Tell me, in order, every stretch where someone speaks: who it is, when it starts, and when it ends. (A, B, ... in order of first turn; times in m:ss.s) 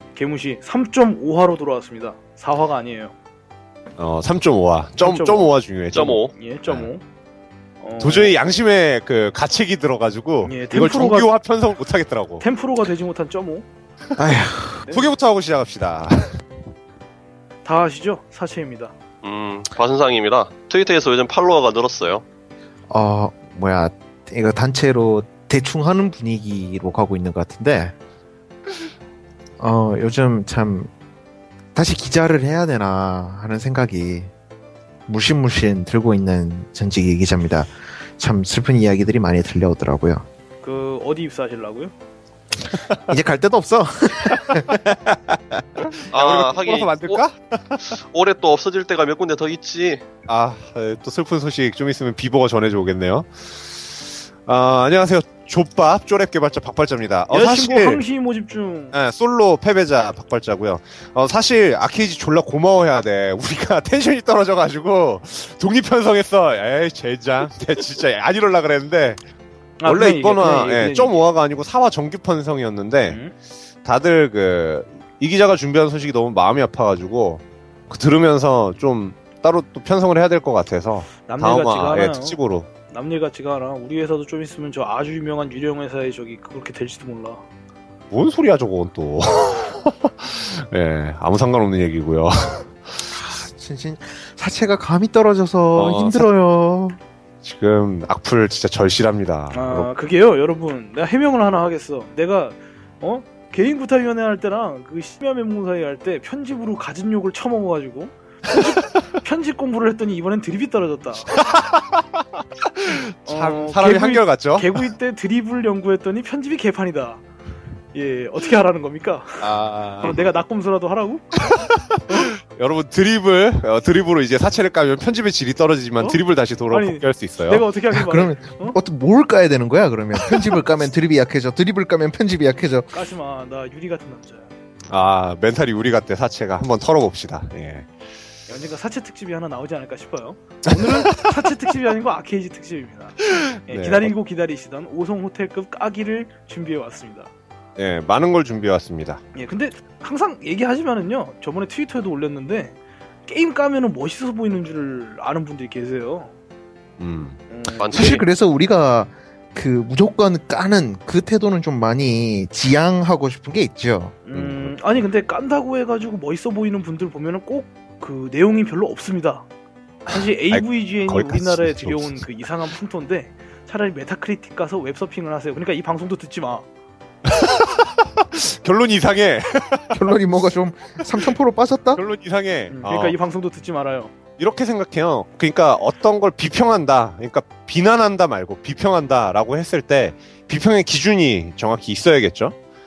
0:00.1-0:03.1 A
0:04.0-0:06.9 B
0:05.0-0:05.5 A
0:05.9-0:06.3 C
0:06.3-0:07.0 A
0:07.8-0:08.3 A
0:08.0-0:12.4 B
0:10.4-0:11.3 A
0:12.4-0:13.6 A
0:14.2-0:14.9 D
0:14.9-0:16.4 B
0:17.6-0:18.9 A
0:19.2-0:22.2 C
0:22.9-0:28.0 D
0:29.6-0:30.9 D
0:31.7-0:34.3 D
0:35.1-0:40.3 D
0:40.6-0:41.9 A
0:43.0-0:44.8 D
0:44.3-0:45.4 B
0:45.9-0:48.0 B
0:46.1-0:47.2 C
0:47.8-0:50.0 C
0:50.3-0:58.0 B
0:57.3-0:58.9 A
0:58.9-1:09.2 B
1:09.8-1:11.2 A
1:09.8-1:13.2 B
1:13.1-1:13.3 A
1:13.8-1:22.7 B
1:21.3-1:22.4 A
1:22.9-1:27.4 A
1:28.1-1:32.9 B
1:33.1-1:37.0 D
1:35.7-1:36.2 B
1:37.4-1:39.9 B
1:39.5-1:51.3 A
1:51.3-1:54.9 B
1:53.3-1:57.2 A
1:57.9-1:59.4 A
1:59.4-2:00.2 B
2:00.0-2:01.3 A
2:01.4-2:07.6 B
2:06.0-2:08.8 A
2:07.9-2:12.9 D
2:12.9-2:14.5 A
2:14.9-2:17.9 B
2:18.5-2:27.3 A
2:20.7-2:21.3 B
2:23.3-2:24.1 B
2:27.8-2:29.2 B
2:29.3-2:36.3 A
2:37.0-2:37.4 B
2:37.5-2:38.2 A
2:37.8-2:38.2 C
2:37.9-2:44.2 D
2:44.2-2:49.5 A
2:44.3-2:44.8 B
2:50.1-2:52.3 B
2:50.1-2:56.6 A
2:57.2-3:00.2 B
2:59.9-3:02.0 D
3:01.9-3:03.2 B
3:02.7-3:04.1 A
3:04.4-3:12.5 B